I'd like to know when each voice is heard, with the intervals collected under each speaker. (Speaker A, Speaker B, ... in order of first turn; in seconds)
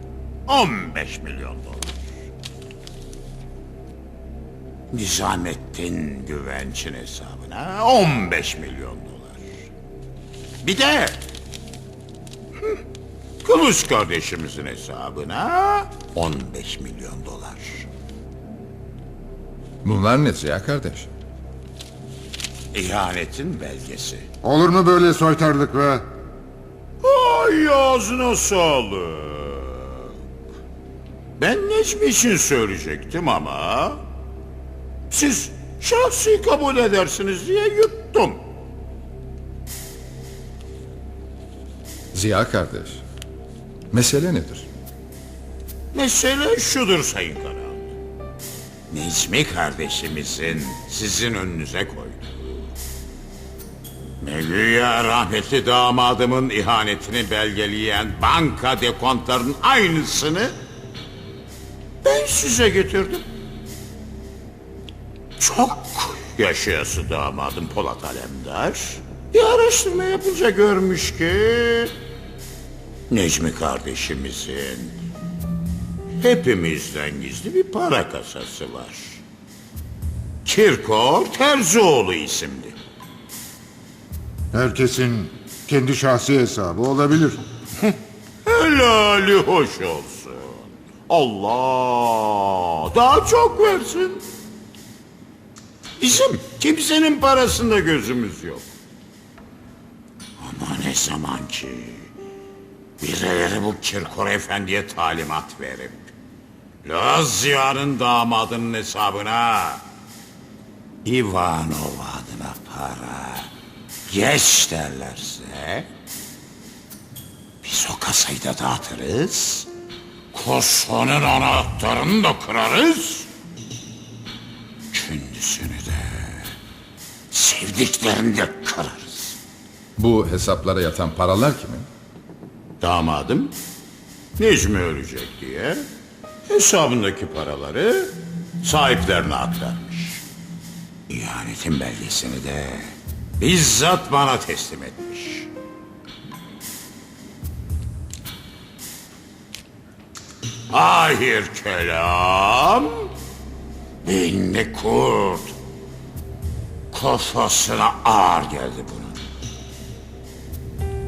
Speaker A: 0.5-2.0, 4.9-9.5, 10.6-11.2, 13.4-17.9, 22.7-24.3, 27.0-30.1, 31.4-34.0, 35.1-38.4, 45.9-47.9, 48.9-52.7, 54.2-60.5, 62.0-63.3, 65.4-71.9, 73.1-75.0, 76.2-79.2, 80.5-82.8, 88.5-94.2, 96.0-98.7, 100.4-102.1, 103.0-106.1, 106.8-109.8, 111.0-113.5, 114.1-115.9, 117.6-119.7, 120.3-123.3, 124.9-126.5, 127.3-129.4, 132.8-133.5, 134.4-135.8, 136.5-140.2, 141.1-145.5, 150.7-153.1, 154.0-155.6, 156.9-159.2
Speaker B: 19.8-21.1, 42.1-43.0, 43.9-44.7, 130.0-131.9
Speaker C: 24.4-26.1, 84.5-87.4